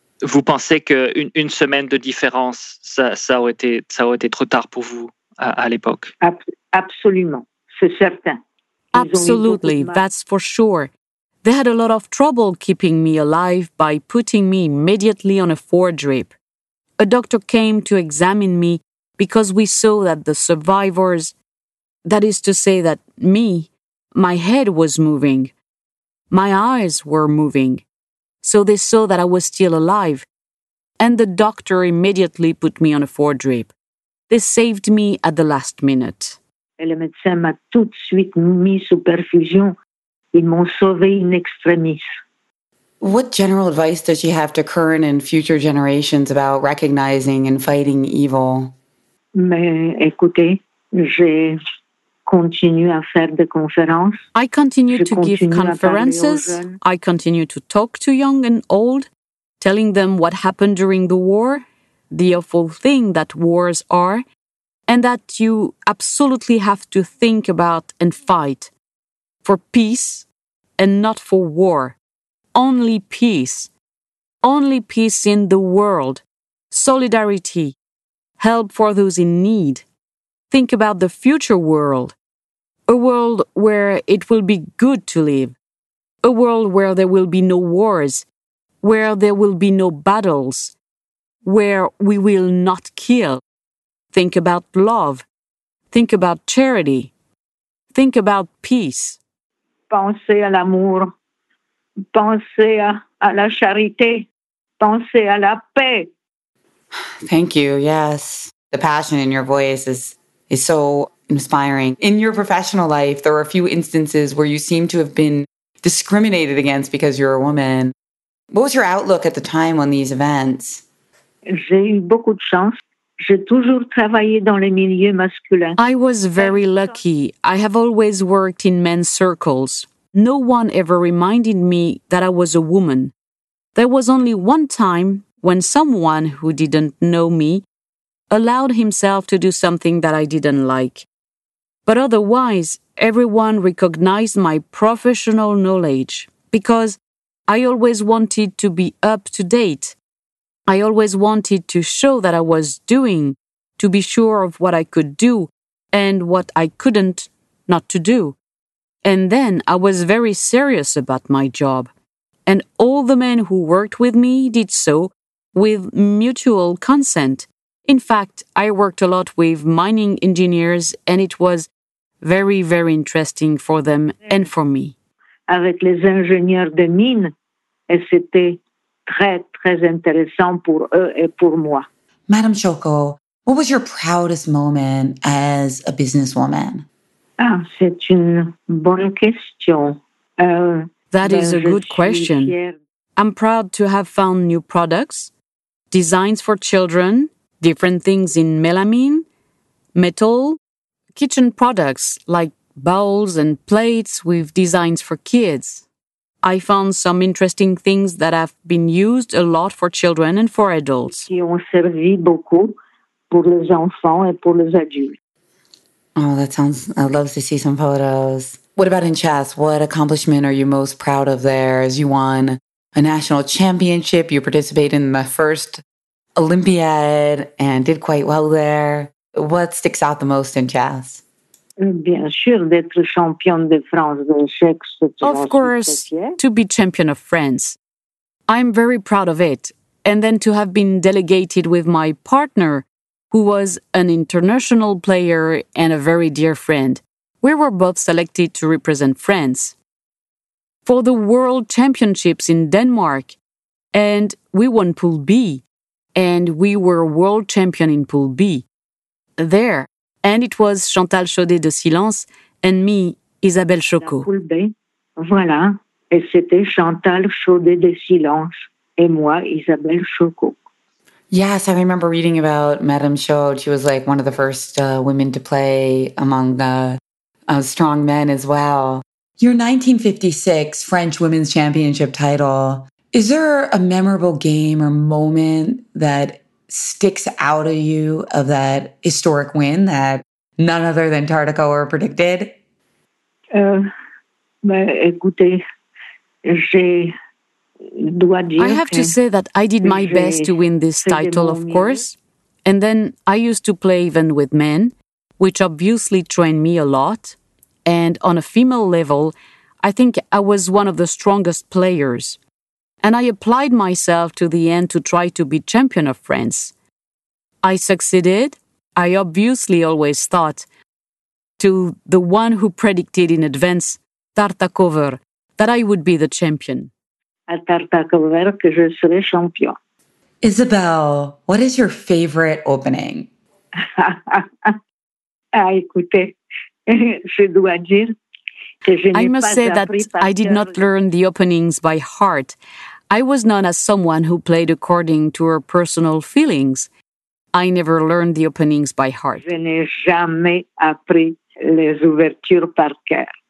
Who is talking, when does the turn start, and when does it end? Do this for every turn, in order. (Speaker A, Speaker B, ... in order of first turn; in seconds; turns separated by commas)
Speaker A: 0.2-6.1, Speaker B: 6.2-8.4, Speaker B: 8.9-10.0, Speaker C: 8.9-10.9, Speaker C: 11.4-16.4, Speaker C: 17.0-21.3, Speaker C: 22.1-25.5, Speaker C: 26.3-27.8, Speaker C: 28.4-30.3, Speaker C: 31.0-33.7, Speaker C: 34.3-36.4, Speaker B: 36.8-39.8, Speaker B: 40.3-42.0, Speaker D: 43.0-48.7, Speaker B: 49.4-51.6, Speaker B: 52.3-54.2, Speaker C: 54.4-59.1, Speaker B: 54.9-56.8, Speaker C: 59.6-64.2, Speaker C: 64.9-68.7, Speaker C: 69.4-70.3, Speaker C: 70.8-72.0, Speaker C: 72.5-73.7, Speaker C: 74.4-77.8, Speaker C: 78.4-79.8, Speaker C: 80.5-82.2, Speaker C: 82.9-85.5, Speaker C: 86.2-88.3, Speaker C: 88.8-90.7, Speaker C: 91.4-93.4, Speaker C: 94.1-95.3, Speaker C: 95.9-97.1, Speaker C: 97.9-99.2, Speaker B: 99.9-101.1, Speaker B: 102.1-104.3, Speaker B: 104.8-106.1, Speaker D: 106.9-117.9, Speaker D: 118.5-120.8, Speaker B: 121.5-125.8, Speaker C: 125.8-133.1, Speaker C: 133.8-137.7, Speaker C: 138.3-141.1, Speaker C: 141.9-150.0, Speaker C: 150.7-158.4, Speaker C: 159.0-161.9, Speaker C: 162.5-171.7, Speaker C: 172.2-174.9, Speaker B: 175.5-177.3, Speaker B: 177.9-181.9, Speaker D: 182.3-186.9, Speaker B: 187.4-192.8, Speaker C: 191.1-192.6, Speaker C: 193.2-195.3, Speaker C: 195.9-199.3, Speaker C: 199.9-200.6, Speaker C: 201.1-205.8, Speaker C: 206.4-211.3, Speaker B: 211.1-212.7, Speaker B: 213.3-215.2, Speaker D: 216.2-225.8, Speaker D: 226.4-231.2, Speaker B: 231.8-236.4, Speaker C: 235.2-237.8, Speaker C: 238.5-249.8, Speaker C: 250.9-253.4, Speaker C: 253.9-255.6, Speaker C: 256.2-258.6, Speaker C: 259.4-264.3, Speaker B: 264.0-270.6, Speaker D: 271.3-292.6, Speaker B: 293.5-293.9, Speaker B: 294.6-295.6, Speaker B: 296.4-297.1, Speaker B: 297.9-299.1, Speaker C: 298.6-312.4, Speaker B: 299.8-300.5, Speaker B: 301.1-302.1, Speaker C: 313.0-316.7, Speaker C: 317.6-320.7, Speaker C: 321.6-326.9, Speaker B: 327.5-329.8, Speaker D: 330.4-333.3, Speaker B: 333.8-334.8, Speaker B: 335.6-336.4, Speaker B: 336.9-338.1, Speaker B: 338.8-340.8, Speaker C: 339.1-342.6, Speaker C: 343.1-346.9, Speaker C: 347.5-349.4, Speaker B: 349.4-353.3